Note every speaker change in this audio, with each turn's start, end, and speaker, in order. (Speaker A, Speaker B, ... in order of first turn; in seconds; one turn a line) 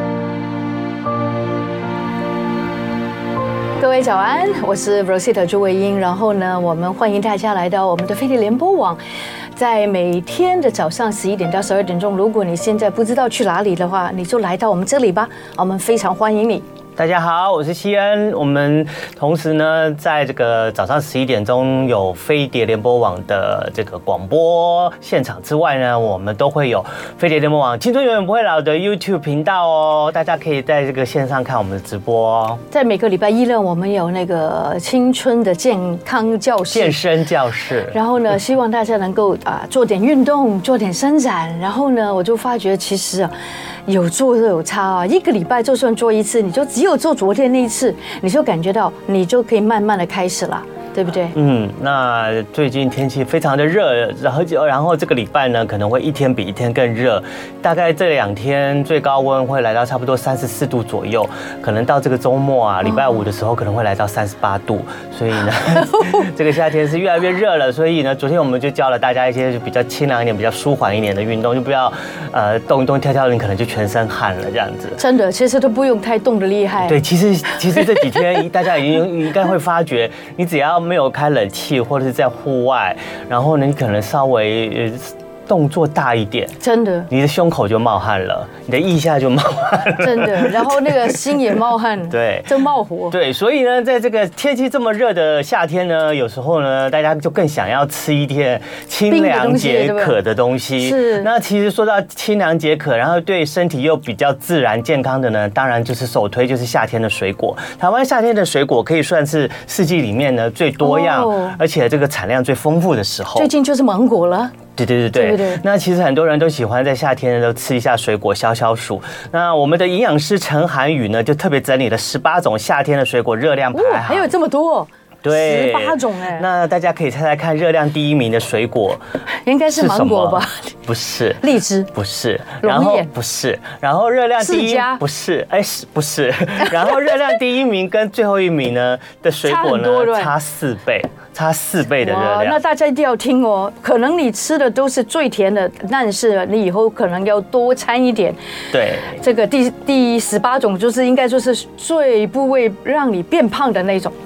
Speaker A: 3.8-9.0
Speaker A: 9.6-16.6
Speaker B: 17.0-32.6
Speaker A: 32.7-37.0
Speaker B: 36.7-38.0
Speaker A: 37.9-43.3
Speaker A: 43.9-51.3
Speaker B: 51.3-75.0
Speaker A: 65.8-66.3
Speaker A: 75.0-77.0
Speaker B: 76.8-86.5
Speaker A: 86.6-87.1
Speaker B: 87.1-91.1
Speaker A: 90.0-93.1
Speaker B: 92.1-113.5
Speaker A: 99.1-100.2
Speaker A: 100.8-101.3
Speaker A: 110.8-111.6
Speaker A: 113.3-114.5
Speaker B: 114.8-124.3
Speaker A: 115.1-115.6
Speaker A: 123.7-126.5
Speaker B: 125.2-129.0
Speaker A: 129.4-130.7
Speaker B: 129.7-131.4
Speaker A: 131.4-131.9
Speaker B: 131.9-142.6
Speaker A: 132.6-133.1
Speaker A: 134.4-135.0
Speaker A: 139.4-140.3
Speaker A: 142.0-148.4
Speaker B: 148.7-149.2
Speaker A: 149.2-154.1